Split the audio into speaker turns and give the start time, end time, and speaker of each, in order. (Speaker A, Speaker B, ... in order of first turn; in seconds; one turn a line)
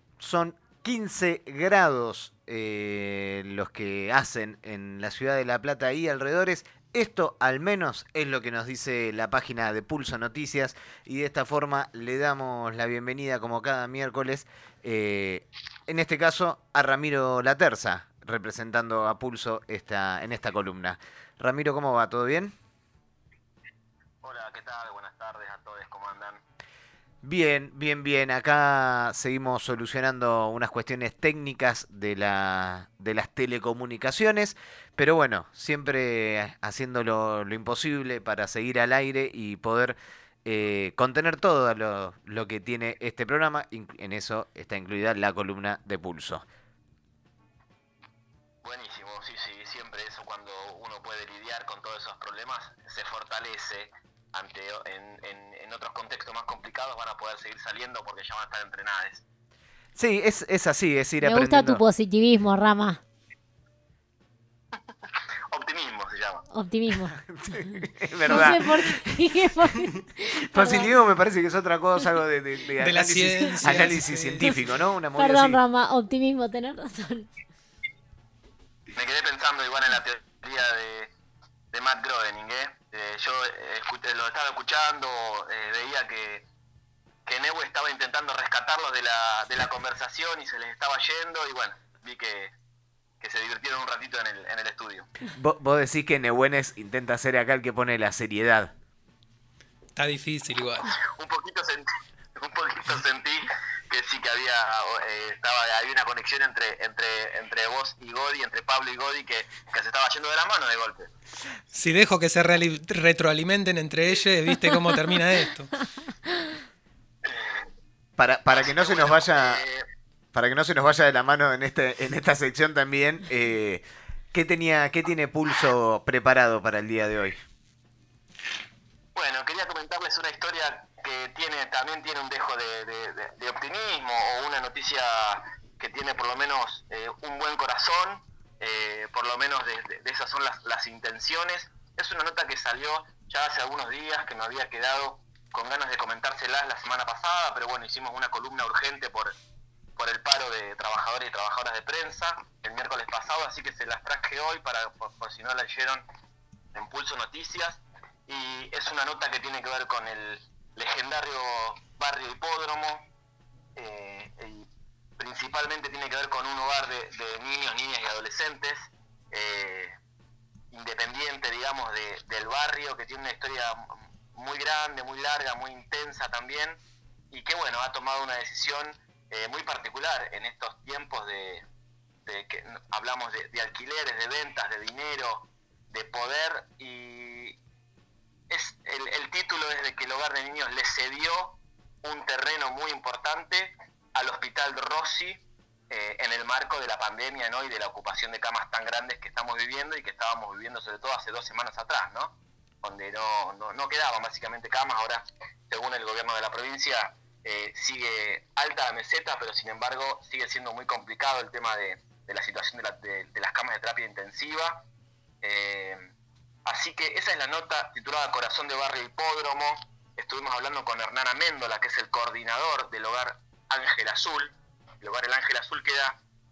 Speaker A: 0.2-22.5
Speaker B: 24.2-26.4
Speaker A: 27.2-46.4
Speaker B: 48.6-59.2
Speaker A: 60.0-61.8
Speaker C: 61.2-63.0
Speaker B: 65.5-66.5
Speaker C: 66.5-67.2
Speaker A: 67.2-69.2
Speaker C: 68.3-71.0
Speaker A: 70.5-75.6
Speaker D: 72.8-74.7
Speaker C: 75.2-77.3
Speaker B: 79.0-81.1
Speaker B: 81.7-86.5
Speaker B: 87.3-92.5
Speaker B: 93.2-95.1
Speaker A: 95.3-98.7
Speaker D: 100.0-101.0
Speaker B: 101.2-111.1
Speaker D: 111.7-115.7
Speaker B: 117.2-117.7
Speaker A: 118.2-119.6
Speaker B: 118.5-119.8
Speaker A: 120.3-127.4
Speaker B: 129.2-149.3
Speaker B: 150.0-156.0
Speaker B: 156.7-163.0
Speaker B: 163.8-164.7
Speaker B: 165.2-170.0
Speaker B: 170.7-181.7
Speaker B: 182.2-187.6
Speaker B: 188.5-214.8
Speaker B: 215.4-216.1
Speaker B: 216.7-226.2